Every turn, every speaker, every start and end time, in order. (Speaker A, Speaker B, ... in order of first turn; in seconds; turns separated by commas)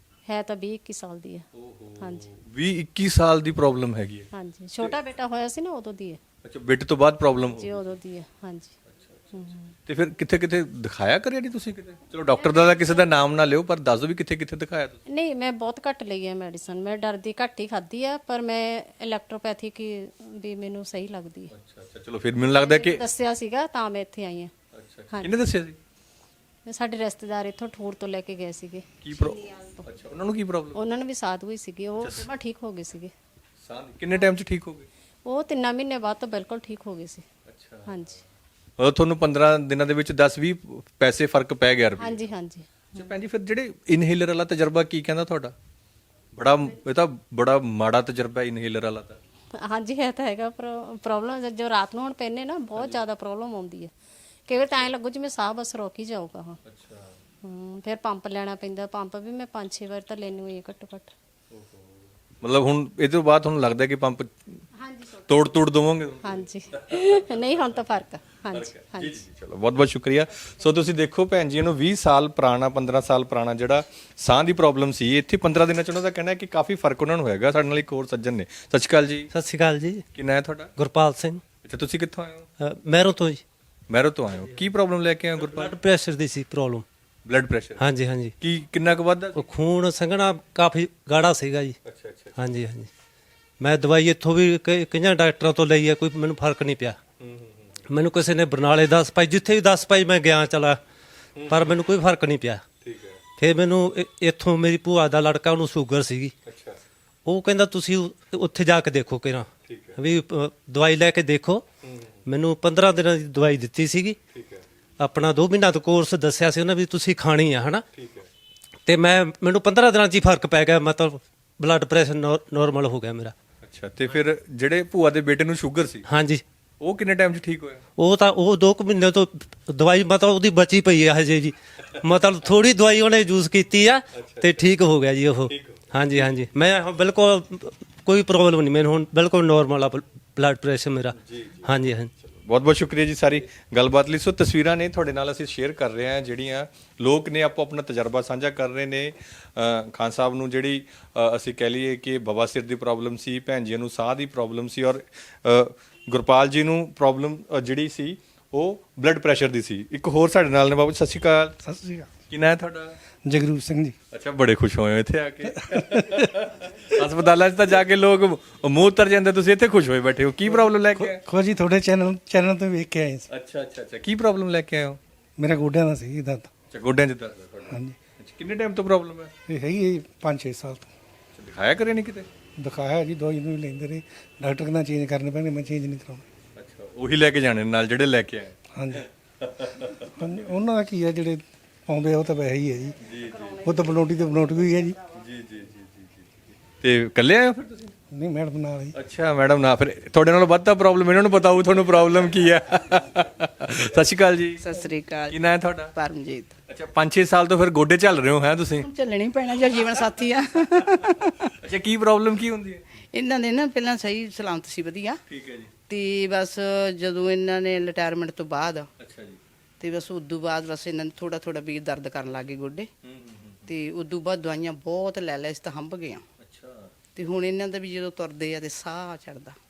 Speaker A: 0.3-1.5, Speaker B: 1.5-5.0, Speaker A: 2.0-2.3, Speaker A: 4.3-6.2, Speaker B: 6.4-7.9, Speaker A: 7.5-8.7, Speaker B: 8.9-15.0, Speaker A: 9.3-9.7, Speaker A: 12.3-13.0, Speaker A: 15.1-21.5, Speaker B: 21.5-23.0, Speaker A: 22.5-24.5, Speaker B: 24.7-25.8, Speaker A: 26.7-29.8, Speaker B: 29.0-30.8, Speaker A: 30.7-33.1, Speaker B: 32.0-32.3, Speaker B: 33.6-34.9, Speaker A: 35.2-37.2, Speaker B: 37.5-38.0, Speaker A: 37.9-38.2, Speaker B: 38.8-42.3, Speaker A: 42.0-43.1, Speaker B: 42.9-45.5, Speaker B: 46.3-49.2, Speaker A: 49.5-53.9, Speaker A: 54.5-56.6, Speaker B: 56.6-57.2, Speaker A: 57.4-61.1, Speaker B: 61.5-64.6, Speaker A: 64.8-65.2, Speaker B: 65.2-67.0, Speaker A: 66.2-69.2, Speaker B: 68.5-79.3, Speaker C: 79.3-80.0, Speaker B: 80.1-80.7, Speaker C: 80.8-81.4, Speaker B: 81.6-82.5, Speaker C: 82.6-83.4, Speaker B: 83.9-85.7, Speaker C: 85.5-86.8, Speaker B: 87.2-87.8, Speaker C: 87.8-88.3, Speaker B: 88.4-89.4, Speaker C: 89.3-91.8, Speaker B: 91.8-92.3, Speaker C: 92.4-92.9, Speaker C: 93.6-97.0, Speaker B: 97.2-97.7, Speaker C: 97.9-100.8, Speaker B: 101.3-101.6, Speaker C: 101.5-102.6, Speaker B: 102.8-103.2, Speaker C: 103.4-106.3, Speaker B: 106.5-106.8, Speaker C: 107.2-111.6, Speaker B: 109.7-110.0, Speaker B: 111.8-112.1, Speaker C: 112.3-114.2, Speaker B: 114.3-114.6, Speaker C: 115.0-117.8, Speaker B: 117.9-118.3, Speaker C: 118.8-123.3, Speaker B: 123.6-126.0, Speaker C: 126.1-126.4, Speaker B: 126.8-127.8, Speaker C: 128.0-142.1, Speaker B: 134.1-134.7, Speaker B: 135.5-136.2, Speaker B: 141.2-141.7, Speaker B: 142.2-161.5, Speaker D: 161.6-162.1, Speaker B: 162.3-162.9, Speaker D: 163.2-163.9, Speaker B: 164.1-171.2, Speaker D: 165.6-166.5, Speaker D: 170.5-173.3, Speaker B: 173.3-175.0, Speaker D: 175.4-176.5, Speaker B: 176.7-179.3, Speaker D: 177.7-177.9, Speaker D: 179.5-180.9, Speaker B: 181.3-182.3, Speaker D: 182.6-186.2, Speaker B: 186.6-190.0, Speaker D: 188.7-189.1, Speaker D: 190.0-195.0, Speaker B: 193.0-193.6, Speaker B: 195.1-197.9, Speaker D: 198.1-198.9, Speaker B: 198.9-204.6, Speaker E: 204.6-205.4, Speaker B: 205.3-205.9, Speaker E: 205.9-206.5, Speaker B: 206.7-208.9, Speaker E: 208.8-211.5, Speaker B: 211.6-212.8, Speaker E: 213.1-215.2, Speaker B: 215.3-215.7, Speaker E: 215.9-218.9, Speaker B: 219.0-219.4, Speaker E: 219.8-222.9, Speaker B: 223.0-223.6, Speaker E: 223.7-226.2, Speaker B: 226.4-226.9, Speaker E: 227.2-229.6